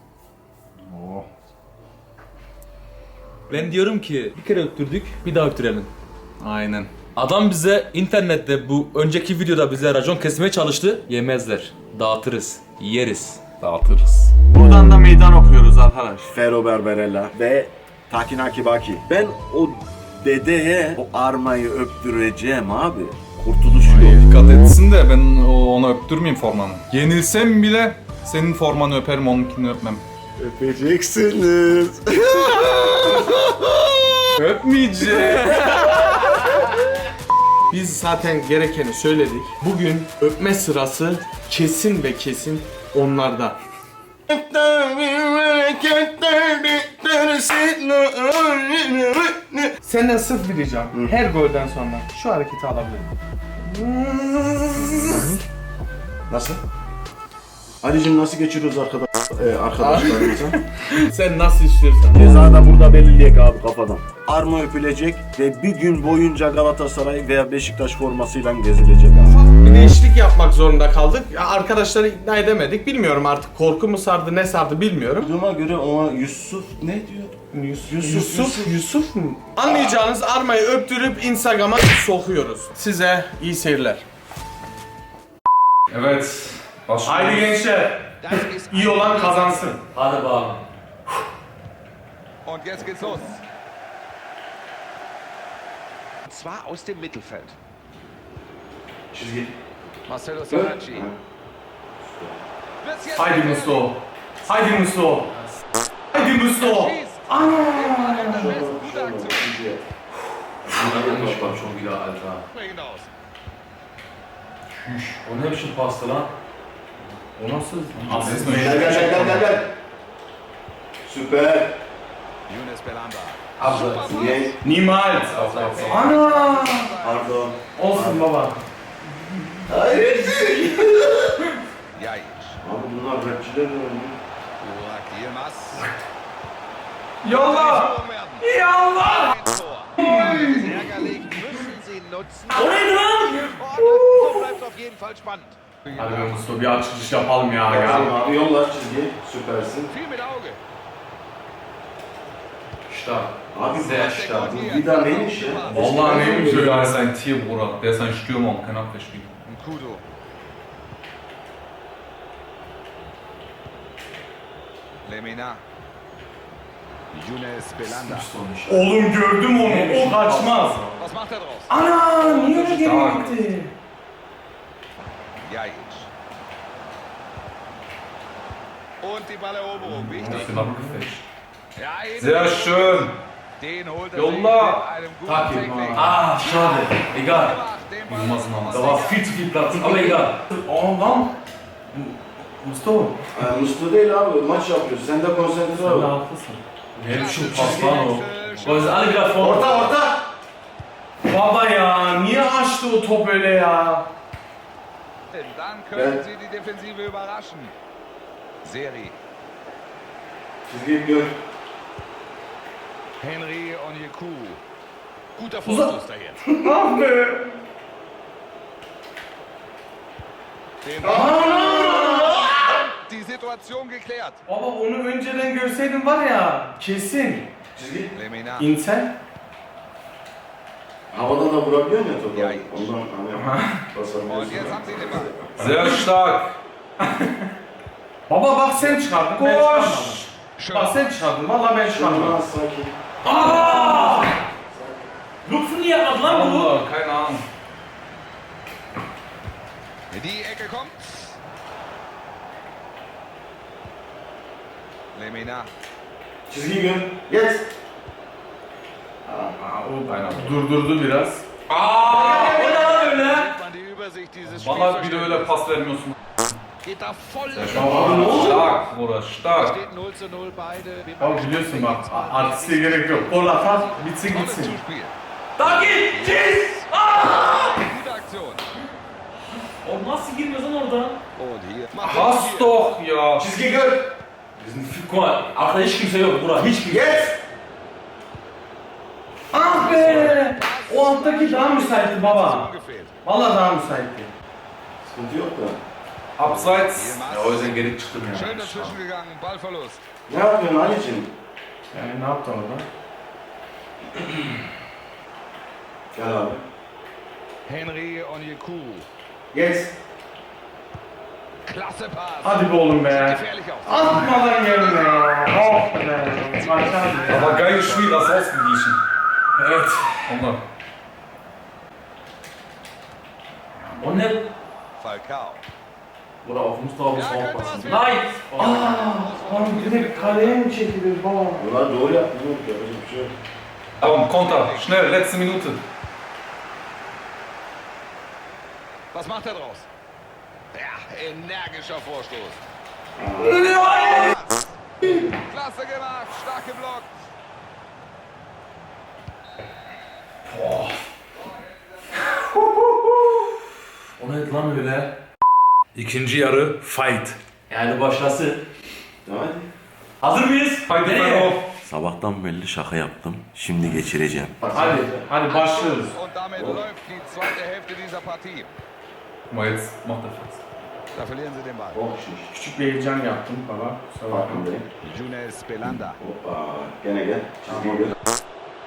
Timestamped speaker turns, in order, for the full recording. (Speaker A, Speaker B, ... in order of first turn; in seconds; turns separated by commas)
Speaker A: 3.5-5.9, Speaker B: 6.4-6.9, Speaker A: 7.1-13.6, Speaker C: 14.5-16.3, Speaker D: 16.3-24.2, Speaker B: 23.9-30.0, Speaker D: 30.4-34.3, Speaker B: 34.4-36.5, Speaker C: 34.7-36.6, Speaker C: 37.7-43.6, Speaker D: 44.3-49.7, Speaker C: 49.8-55.3, Speaker D: 55.0-55.4, Speaker D: 56.3-56.6, Speaker D: 57.8-60.6, Speaker C: 59.8-62.2, Speaker D: 62.1-69.4, Speaker C: 69.6-75.3, Speaker D: 75.2-78.8, Speaker C: 77.5-84.0, Speaker B: 85.9-87.6, Speaker C: 87.0-89.8, Speaker E: 88.2-89.8, Speaker A: 89.9-90.6, Speaker E: 92.4-93.4, Speaker E: 96.3-97.5, Speaker D: 99.1-99.5, Speaker E: 100.1-101.1, Speaker D: 100.5-101.2, Speaker D: 102.0-102.4, Speaker E: 102.8-103.9, Speaker C: 103.1-105.3, Speaker C: 106.1-108.5, Speaker E: 106.5-109.7, Speaker D: 108.2-109.8, Speaker A: 110.7-112.4, Speaker D: 110.7-111.8, Speaker E: 112.5-113.1, Speaker B: 114.8-115.2, Speaker A: 115.2-116.3, Speaker C: 117.3-119.5, Speaker B: 117.9-119.3, Speaker D: 118.5-119.7, Speaker D: 121.0-121.8, Speaker E: 122.5-127.5, Speaker A: 123.6-124.2, Speaker D: 124.1-124.5, Speaker C: 124.6-126.9, Speaker A: 125.2-125.9, Speaker B: 125.2-126.1, Speaker D: 127.0-128.2, Speaker C: 127.8-128.6, Speaker D: 129.7-131.3, Speaker E: 131.9-132.6, Speaker D: 132.6-134.2, Speaker E: 134.6-135.9, Speaker B: 137.2-139.3, Speaker E: 137.2-146.4, Speaker C: 140.0-140.4, Speaker A: 142.5-143.6, Speaker B: 144.0-144.4, Speaker C: 145.9-148.1, Speaker D: 147.7-149.9, Speaker E: 149.9-150.6, Speaker A: 152.9-153.8, Speaker D: 153.5-156.7, Speaker E: 153.8-156.0, Speaker C: 155.7-157.0, Speaker B: 156.1-159.4, Speaker E: 159.4-160.0, Speaker E: 165.0-165.6, Speaker E: 167.1-168.3, Speaker A: 167.8-168.8, Speaker C: 168.7-170.8, Speaker A: 169.6-171.0, Speaker E: 171.0-171.7, Speaker C: 171.7-173.7, Speaker A: 172.2-172.7, Speaker B: 172.7-173.4, Speaker E: 175.4-176.1, Speaker E: 179.0-180.5, Speaker B: 179.9-181.2, Speaker C: 180.1-181.1, Speaker E: 181.8-189.3, Speaker B: 182.2-183.1, Speaker B: 184.1-184.8, Speaker C: 185.3-186.2, Speaker A: 185.9-187.6, Speaker B: 188.1-188.8, Speaker A: 188.7-190.4, Speaker C: 190.5-191.3, Speaker C: 191.9-193.2, Speaker D: 193.3-196.1, Speaker C: 195.8-198.0, Speaker A: 197.0-199.9, Speaker E: 197.1-199.2, Speaker D: 199.4-200.2, Speaker C: 201.2-204.1, Speaker E: 205.3-207.7, Speaker D: 205.9-206.2, Speaker E: 208.6-209.2, Speaker D: 210.7-211.3, Speaker E: 213.2-214.6, Speaker E: 215.3-216.4, Speaker D: 216.4-216.7, Speaker C: 216.6-217.6, Speaker E: 220.8-224.4, Speaker D: 221.0-222.8, Speaker C: 221.0-222.4, Speaker C: 224.5-227.5, Speaker D: 227.8-228.1, Speaker E: 228.1-228.7, Speaker C: 228.6-229.1, Speaker D: 231.1-235.8, Speaker E: 232.3-232.9, Speaker C: 233.3-233.8, Speaker E: 234.2-235.4, Speaker B: 235.6-236.6, Speaker C: 238.3-242.4, Speaker B: 238.8-240.2, Speaker E: 240.6-241.0, Speaker D: 241.8-243.0, Speaker B: 243.2-244.1, Speaker A: 243.2-244.4, Speaker D: 244.4-245.1, Speaker A: 245.4-246.7, Speaker B: 246.2-247.4, Speaker E: 250.1-251.3, Speaker E: 255.1-255.7, Speaker D: 256.5-257.7, Speaker D: 259.3-259.5, Speaker C: 259.5-261.5, Speaker B: 260.1-260.6, Speaker B: 261.7-262.7, Speaker E: 262.0-265.6, Speaker C: 262.0-263.5, Speaker B: 264.4-266.1, Speaker E: 266.8-268.7, Speaker B: 267.5-269.8, Speaker D: 267.7-268.7, Speaker E: 269.5-278.7, Speaker C: 271.2-274.8, Speaker A: 275.6-277.9, Speaker A: 279.8-281.2, Speaker E: 281.3-282.9, Speaker B: 282.0-283.5, Speaker D: 283.4-284.1, Speaker A: 284.6-287.3, Speaker D: 286.6-287.4, Speaker C: 289.5-292.7, Speaker E: 289.7-293.2, Speaker A: 289.8-290.4, Speaker C: 293.2-294.3, Speaker D: 295.0-295.8, Speaker B: 296.4-297.2, Speaker E: 296.9-297.8, Speaker A: 297.3-298.9, Speaker E: 298.3-300.0, Speaker D: 300.3-301.3, Speaker C: 301.9-302.8, Speaker D: 306.1-306.6, Speaker E: 307.6-309.1, Speaker D: 309.5-309.9, Speaker E: 311.6-318.4, Speaker C: 312.4-317.6, Speaker B: 317.3-319.0, Speaker C: 319.6-320.3, Speaker B: 320.2-320.6, Speaker A: 324.0-324.5, Speaker E: 325.0-325.6, Speaker A: 326.4-328.8, Speaker E: 327.1-330.6, Speaker C: 328.5-331.6, Speaker D: 331.6-333.3, Speaker E: 334.0-335.0, Speaker B: 334.0-335.8, Speaker E: 339.1-339.9, Speaker E: 340.7-342.6, Speaker D: 343.1-343.7, Speaker B: 343.4-344.3, Speaker E: 344.0-344.6, Speaker E: 345.2-347.1, Speaker A: 350.5-350.9, Speaker E: 351.4-351.6, Speaker A: 354.2-355.1, Speaker A: 355.9-358.6, Speaker D: 359.2-359.7, Speaker A: 360.2-361.6, Speaker B: 360.9-361.6, Speaker D: 361.8-365.2, Speaker C: 364.7-366.1, Speaker E: 365.4-368.7, Speaker D: 366.6-366.8, Speaker B: 369.5-370.6, Speaker E: 371.1-372.0, Speaker D: 371.9-372.5, Speaker C: 372.5-374.6, Speaker D: 374.3-374.9, Speaker E: 375.0-376.2, Speaker D: 376.2-378.1